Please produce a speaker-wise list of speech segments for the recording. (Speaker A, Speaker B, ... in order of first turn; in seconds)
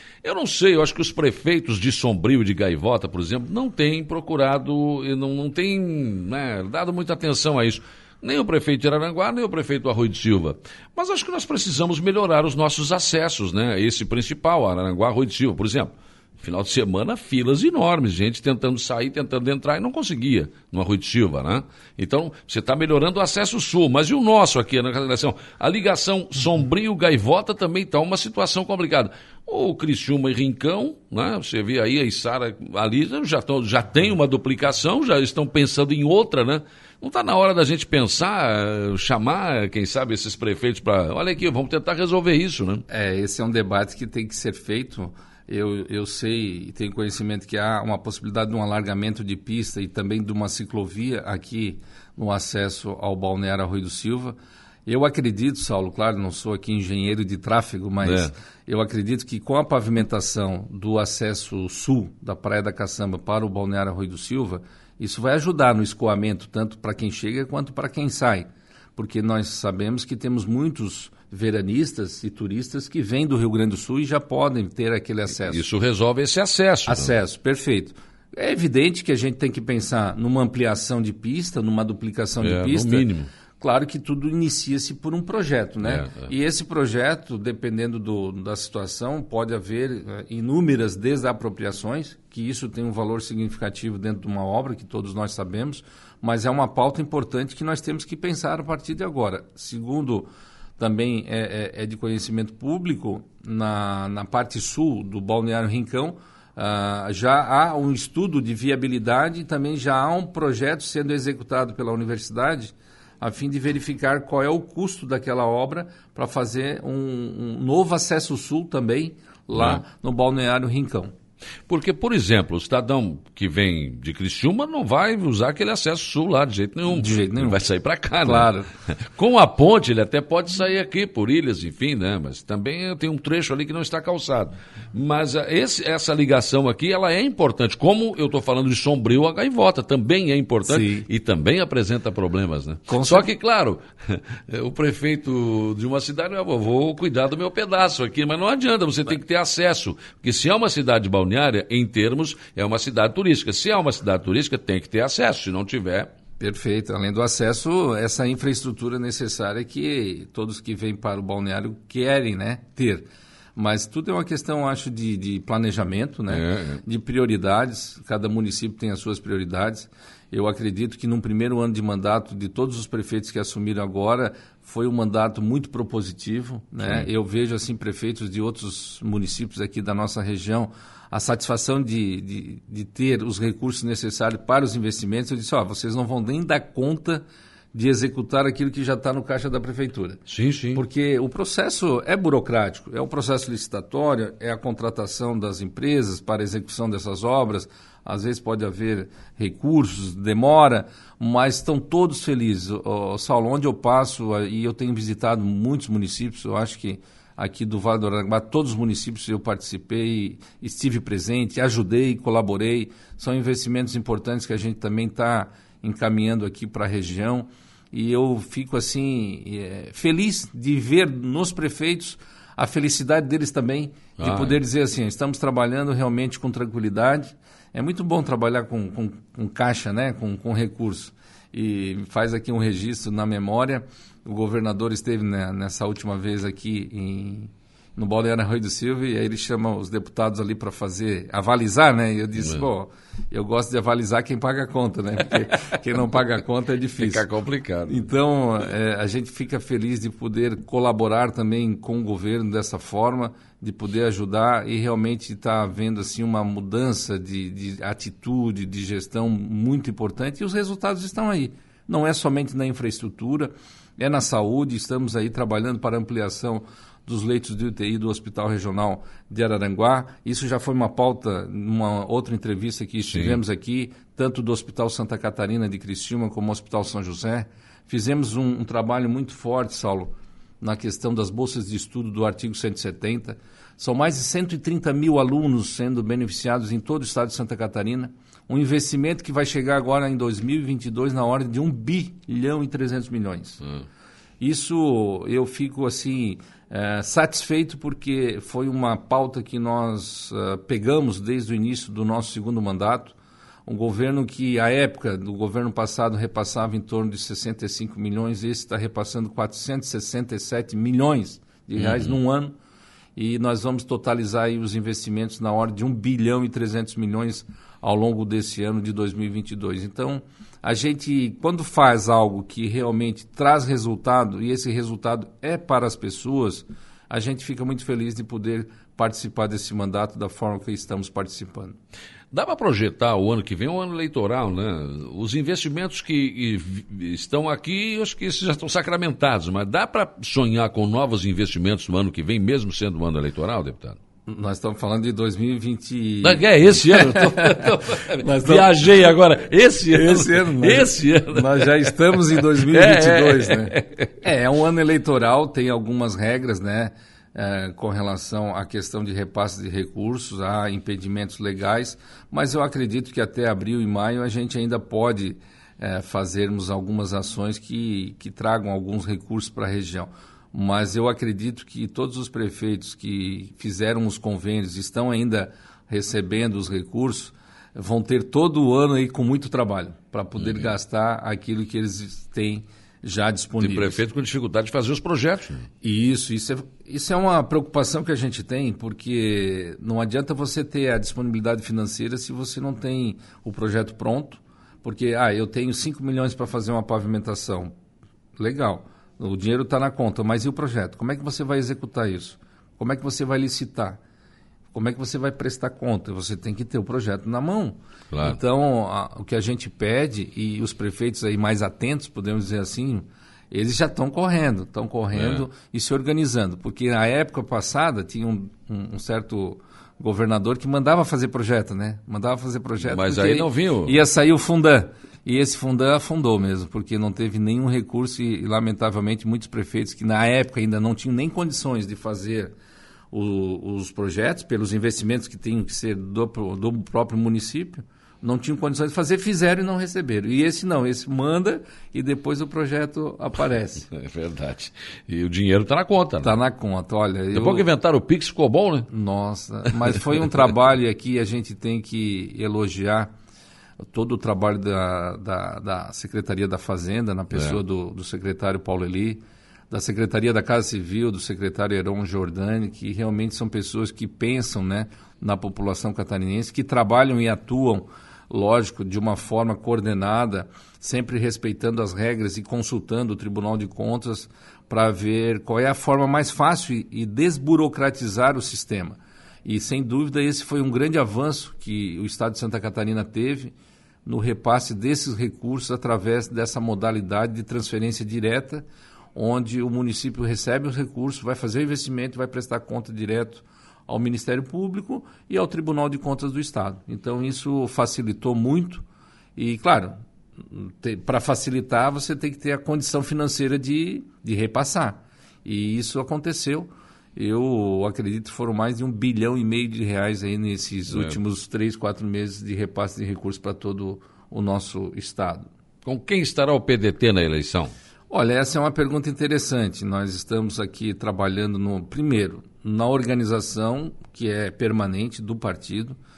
Speaker A: 0.2-42.9, 58.0-58.3, 75.4-77.1, 82.4-83.3, 85.8-86.3, 119.5-119.8, 121.7-156.1, 166.3-166.8, 176.8-177.1, 190.3-190.8, 224.2-224.6, 247.0-248.1, 273.1-273.4, 311.8-312.1, 332.3-344.0, 346.2-354.1, 380.4-380.7, 383.6-385.7, 408.1-408.4, 415.1-415.4, 422.8-424.0, 443.9-446.4, 447.3-448.9, 510.9-511.2, 515.9-517.7
Speaker B: 42.9-75.6, 76.9-83.1, 83.6-100.3, 100.8-121.1, 126.9-127.6, 128.2-128.7, 140.7-141.1, 142.9-143.3, 156.4-190.2, 190.7-247.3, 247.9-293.6, 294.4-312.5, 313.2-331.8, 344.3-349.1, 349.9-384.0, 385.8-397.7, 398.4-404.0, 404.7-432.5, 433.1-443.9, 446.2-447.7, 448.9-453.1, 453.9-483.5, 484.1-498.8, 499.4-515.5, 518.1-526.0